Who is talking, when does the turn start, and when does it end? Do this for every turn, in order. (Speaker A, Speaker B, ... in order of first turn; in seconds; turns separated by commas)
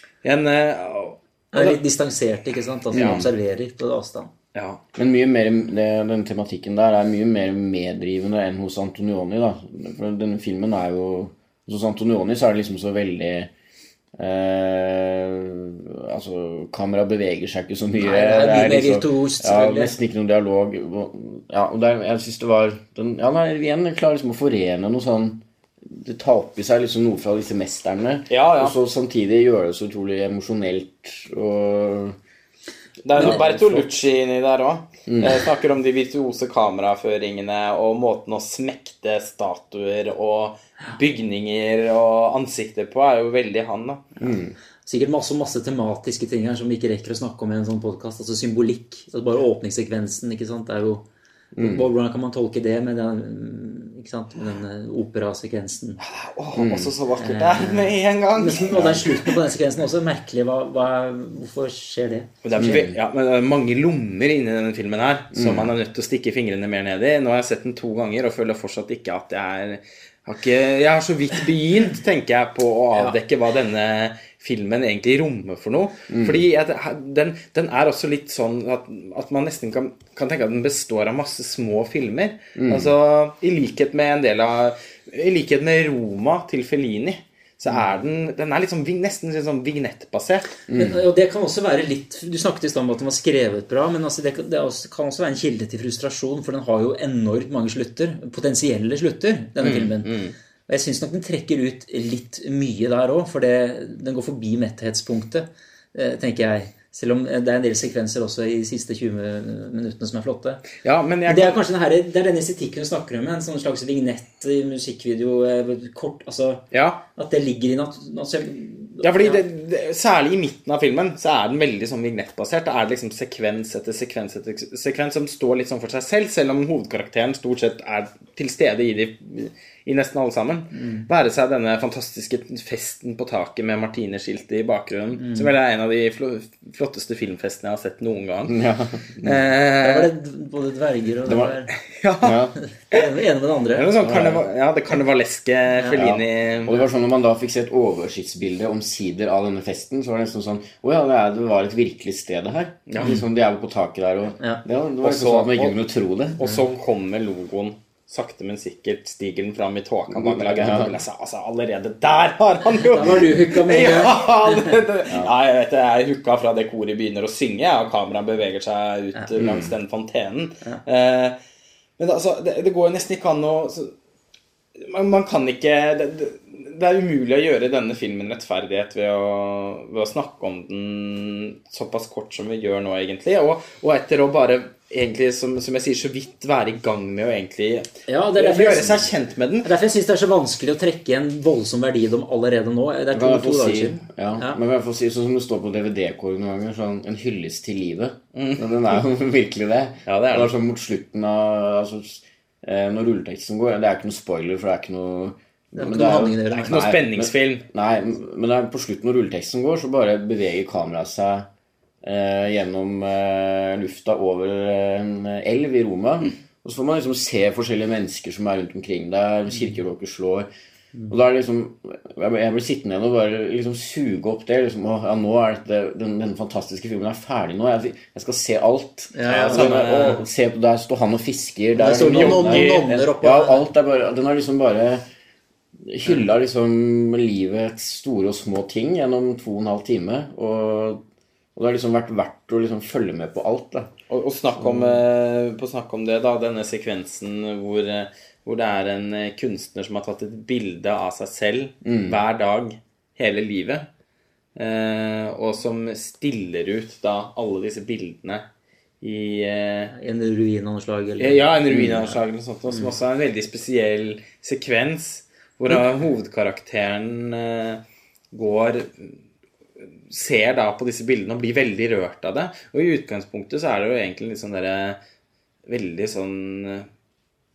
Speaker A: 0.2-1.8, Speaker B: 1.5-4.3, Speaker C: 2.9-3.3, Speaker A: 4.5-4.8, Speaker C: 5.0-13.5, Speaker C: 14.2-32.2, Speaker B: 18.0-19.9, Speaker A: 28.3-28.8, Speaker A: 33.0-44.2, Speaker C: 33.2-33.7, Speaker B: 33.2-33.7, Speaker C: 35.1-35.5, Speaker C: 44.2-44.5, Speaker B: 44.9-51.0, Speaker C: 51.5-51.9, Speaker B: 51.6-56.0, Speaker A: 56.0-59.2, Speaker C: 56.5-56.9, Speaker B: 57.2-62.3, Speaker C: 58.7-59.0, Speaker A: 62.4-90.5, Speaker C: 62.6-63.0, Speaker C: 65.3-65.7, Speaker C: 76.1-76.4, Speaker C: 82.5-82.9, Speaker C: 90.7-91.0, Speaker B: 90.7-100.2, Speaker A: 99.6-100.3, Speaker B: 100.7-110.7, Speaker A: 110.8-111.6, Speaker B: 111.3-119.4, Speaker A: 116.7-117.0, Speaker A: 119.0-138.6, Speaker B: 130.7-131.1, Speaker B: 135.2-135.5, Speaker C: 138.5-139.5, Speaker A: 139.2-140.1, Speaker B: 139.8-141.7, Speaker C: 141.3-141.6, Speaker A: 141.9-143.1, Speaker C: 142.2-142.6, Speaker B: 142.6-143.9, Speaker A: 143.7-146.8, Speaker C: 144.0-144.4, Speaker C: 145.9-156.4, Speaker A: 152.9-153.2, Speaker A: 155.0-155.8, Speaker A: 156.4-171.4, Speaker C: 160.1-161.0, Speaker B: 162.9-164.8, Speaker C: 169.3-169.7, Speaker A: 172.0-173.9, Speaker A: 174.8-189.7, Speaker B: 188.1-189.1, Speaker B: 189.6-194.6, Speaker C: 193.1-211.5, Speaker A: 198.3-199.0, Speaker A: 200.1-200.5, Speaker B: 205.8-206.8, Speaker A: 206.6-207.7, Speaker C: 212.0-220.5, Speaker C: 221.1-235.0, Speaker B: 229.1-230.1, Speaker A: 229.4-230.2, Speaker B: 231.8-233.7, Speaker A: 232.1-232.9, Speaker C: 235.8-241.0, Speaker C: 241.6-243.9, Speaker A: 244.1-253.9, Speaker C: 244.6-245.0, Speaker C: 251.8-252.2, Speaker A: 254.6-258.4, Speaker A: 259.0-259.9, Speaker B: 259.9-261.9, Speaker A: 261.2-269.2, Speaker C: 261.7-262.1, Speaker A: 270.1-275.0, Speaker A: 275.7-276.9